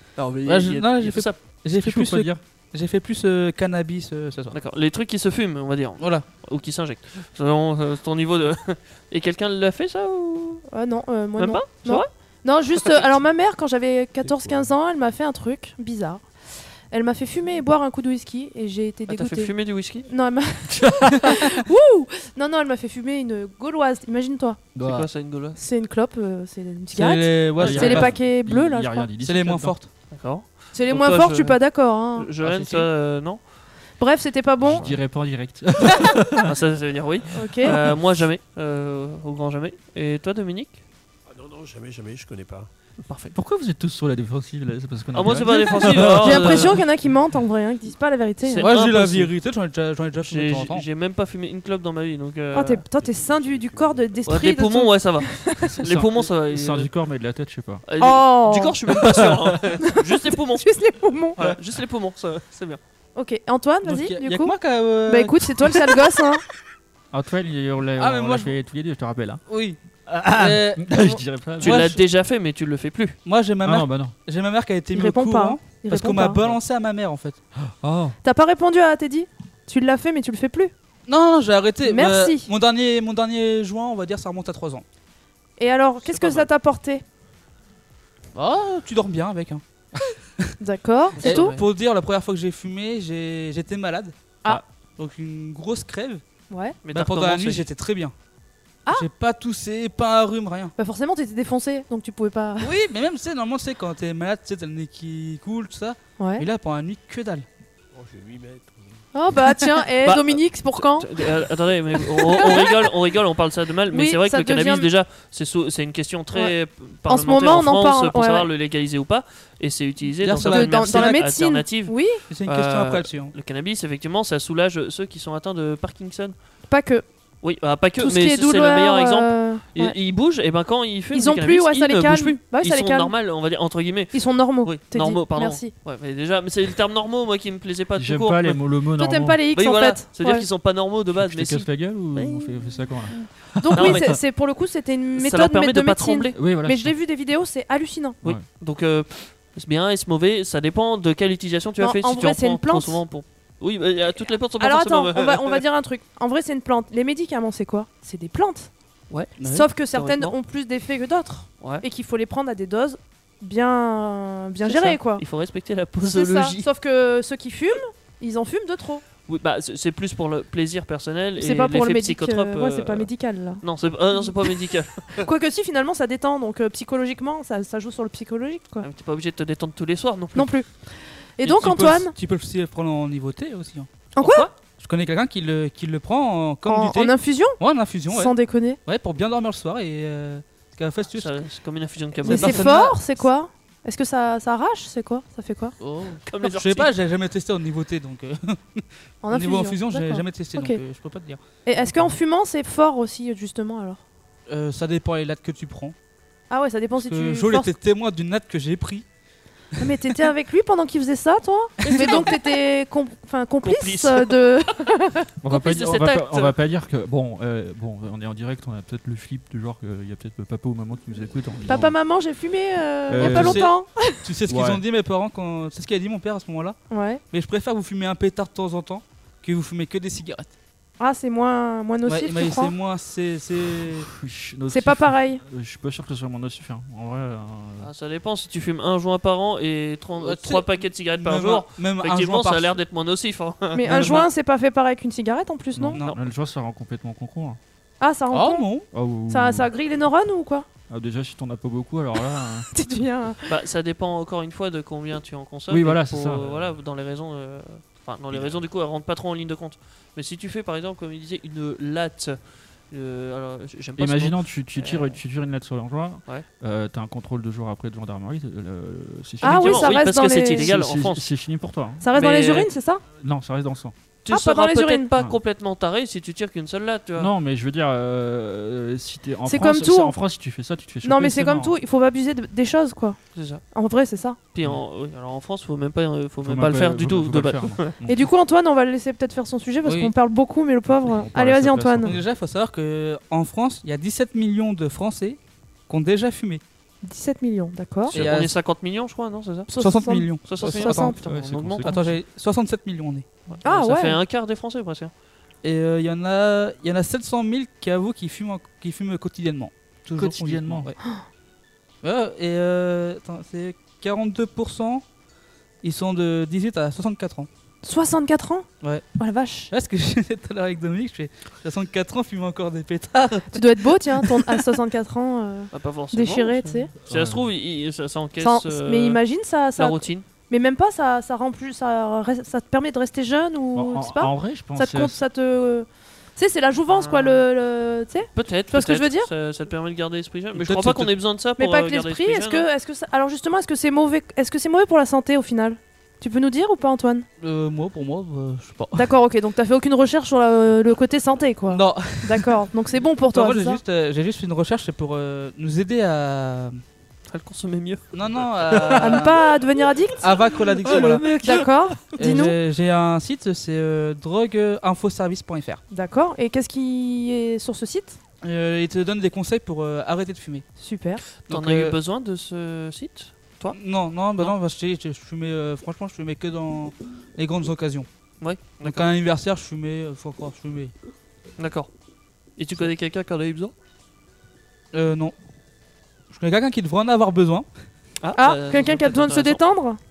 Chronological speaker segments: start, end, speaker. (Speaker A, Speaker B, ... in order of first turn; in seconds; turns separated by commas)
Speaker A: 0.2-1.5, Speaker B: 0.4-4.6, Speaker C: 1.8-2.4, Speaker A: 4.5-10.7, Speaker B: 6.0-6.3, Speaker D: 10.7-16.2, Speaker A: 11.4-12.1, Speaker E: 14.2-14.7, Speaker D: 16.9-24.6, Speaker A: 19.1-20.1, Speaker C: 20.7-21.5, Speaker C: 24.8-25.1, Speaker A: 24.8-25.6, Speaker D: 25.6-29.1, Speaker B: 26.9-28.1, Speaker A: 27.6-28.1, Speaker C: 27.6-29.8, Speaker B: 29.2-29.9, Speaker A: 30.1-33.4, Speaker D: 30.7-32.3, Speaker B: 32.4-32.9, Speaker D: 34.0-34.9, Speaker C: 34.6-36.5, Speaker A: 36.4-40.8, Speaker D: 37.3-37.8, Speaker C: 37.6-38.2, Speaker E: 41.3-42.7, Speaker A: 43.0-43.4, Speaker C: 43.3-46.8, Speaker A: 45.1-46.8, Speaker D: 45.9-49.0, Speaker A: 48.5-49.3, Speaker B: 48.6-50.9, Speaker A: 50.2-52.8, Speaker D: 52.5-55.8, Speaker E: 53.0-54.4, Speaker A: 54.3-56.9, Speaker C: 55.7-57.8, Speaker A: 57.9-60.7, Speaker D: 58.0-58.8, Speaker C: 58.9-59.6, Speaker D: 59.8-61.4, Speaker A: 61.4-62.8, Speaker D: 63.2-66.4, Speaker B: 63.9-66.0, Speaker C: 67.1-69.4, Speaker B: 68.0-68.5, Speaker B: 69.5-69.8, Speaker C: 70.0-71.9, Speaker B: 70.3-70.9, Speaker A: 71.6-73.2, Speaker B: 71.6-72.0, Speaker B: 73.2-77.4, Speaker C: 73.6-74.2, Speaker D: 74.9-76.4, Speaker C: 77.6-78.2, Speaker D: 78.2-80.7, Speaker B: 81.1-84.8, Speaker D: 81.8-82.5, Speaker D: 85.6-87.0, Speaker A: 86.1-86.5, Speaker B: 88.3-89.6, Speaker D: 90.6-91.6, Speaker A: 91.2-91.7, Speaker B: 91.2-94.2, Speaker B: 95.0-96.2, Speaker D: 96.5-96.8, Speaker A: 96.8-97.7, Speaker B: 96.9-98.1, Speaker B: 98.9-100.7, Speaker D: 100.8-102.8, Speaker B: 102.6-107.5, Speaker D: 106.2-106.5, Speaker E: 107.9-109.1, Speaker D: 109.1-111.1, Speaker A: 110.0-126.3, Speaker D: 112.0-112.9, Speaker D: 113.9-114.9, Speaker D: 116.3-118.5, Speaker B: 120.2-121.2, Speaker D: 120.4-122.2, Speaker B: 122.3-123.3, Speaker D: 126.7-127.1, Speaker A: 127.4-138.7, Speaker D: 128.0-130.0, Speaker D: 131.1-133.1, Speaker D: 134.1-135.7, Speaker C: 138.0-139.4, Speaker D: 139.0-140.5, Speaker A: 139.6-142.8, Speaker C: 141.1-144.1, Speaker D: 143.6-148.2, Speaker A: 143.8-144.2, Speaker A: 145.2-146.4, Speaker C: 146.4-146.9, Speaker A: 148.2-155.6, Speaker D: 151.8-153.0, Speaker D: 154.2-158.7, Speaker A: 159.1-160.4, Speaker B: 159.4-159.7, Speaker D: 159.4-165.2, Speaker A: 164.6-166.7, Speaker D: 166.0-169.0, Speaker A: 169.3-175.3, Speaker D: 171.4-173.6, Speaker D: 174.2-174.6, Speaker D: 175.1-178.9, Speaker A: 178.8-180.6, Speaker D: 180.3-182.2, Speaker B: 181.4-183.9, Speaker D: 184.2-184.5, Speaker A: 184.2-184.5, Speaker B: 184.7-191.4, Speaker D: 186.7-188.8, Speaker A: 191.1-193.1, Speaker B: 192.2-193.0, Speaker D: 192.2-195.8, Speaker B: 195.8-202.1, Speaker A: 196.3-196.9, Speaker D: 199.2-200.8, Speaker D: 201.6-204.0, Speaker B: 204.5-205.9, Speaker D: 206.5-207.7, Speaker B: 207.0-209.1, Speaker D: 209.8-215.3, Speaker B: 211.8-212.2, Speaker A: 211.8-212.5, Speaker A: 213.6-214.7, Speaker C: 215.4-221.9, Speaker A: 215.5-216.6, Speaker D: 221.7-224.2, Speaker C: 223.1-223.7, Speaker B: 223.2-226.8, Speaker C: 224.5-224.8, Speaker D: 226.9-227.2, Speaker B: 227.3-230.5, Speaker D: 231.0-232.8, Speaker B: 232.1-234.1, Speaker C: 233.8-237.9, Speaker D: 234.7-235.4, Speaker A: 237.8-244.3, Speaker B: 240.2-242.8, Speaker D: 243.7-246.0, Speaker C: 245.8-247.6, Speaker D: 248.0-250.7, Speaker B: 248.3-248.9, Speaker C: 248.9-249.7, Speaker C: 250.9-252.7, Speaker D: 252.7-253.5, Speaker A: 253.5-265.2, Speaker C: 255.7-256.5, Speaker E: 256.4-256.8, Speaker E: 258.3-258.7, Speaker C: 264.0-272.2, Speaker A: 269.4-271.3, Speaker D: 269.4-270.7, Speaker D: 272.0-273.0, Speaker A: 272.1-272.7, Speaker C: 273.2-273.9, Speaker A: 274.2-277.3, Speaker D: 274.3-275.1, Speaker C: 277.2-281.8, Speaker D: 279.5-280.2, Speaker D: 281.0-284.4, Speaker A: 283.4-283.6, Speaker A: 284.5-288.0, Speaker C: 286.4-288.2, Speaker D: 288.1-292.2, Speaker B: 289.8-290.1, Speaker C: 290.9-292.3, Speaker B: 292.0-296.6, Speaker D: 297.0-298.2, Speaker B: 298.1-298.6, Speaker A: 298.1-299.7, Speaker D: 299.7-301.2, Speaker B: 299.8-301.2, Speaker A: 300.4-302.0, Speaker C: 301.2-302.2, Speaker B: 301.8-303.3, Speaker A: 303.5-305.1, Speaker D: 303.6-304.2, Speaker B: 305.6-311.0, Speaker C: 310.2-310.9, Speaker B: 312.0-315.0, Speaker B: 315.8-317.5, Speaker D: 317.8-319.7, Speaker B: 319.7-324.6, Speaker D: 323.5-326.9, Speaker A: 325.7-329.2, Speaker C: 327.1-327.4, Speaker D: 328.4-339.3, Speaker A: 329.8-330.2, Speaker C: 333.7-335.2, Speaker A: 336.9-337.4, Speaker A: 338.4-342.7, Speaker B: 340.6-341.1, Speaker D: 341.6-347.2, Speaker B: 347.4-349.1, Speaker D: 348.9-353.8, Speaker B: 351.7-352.6, Speaker B: 353.3-356.8, Speaker A: 357.3-359.4, Speaker B: 358.1-359.4, Speaker D: 359.0-360.3, Speaker B: 360.2-361.4, Speaker A: 360.3-362.0, Speaker D: 361.0-362.6, Speaker B: 362.2-365.8, Speaker D: 365.9-368.2, Speaker B: 368.4-370.7, Speaker D: 370.8-371.2, Speaker B: 371.4-372.0, Speaker A: 371.5-373.8, Speaker B: 373.7-378.1, Speaker A: 378.4-379.1, Speaker B: 378.8-380.9, Speaker A: 381.6-381.9, Speaker A: 382.6-383.7, Speaker B: 384.9-385.4, Speaker B: 386.3-387.7, Speaker A: 388.2-389.6, Speaker D: 388.4-390.0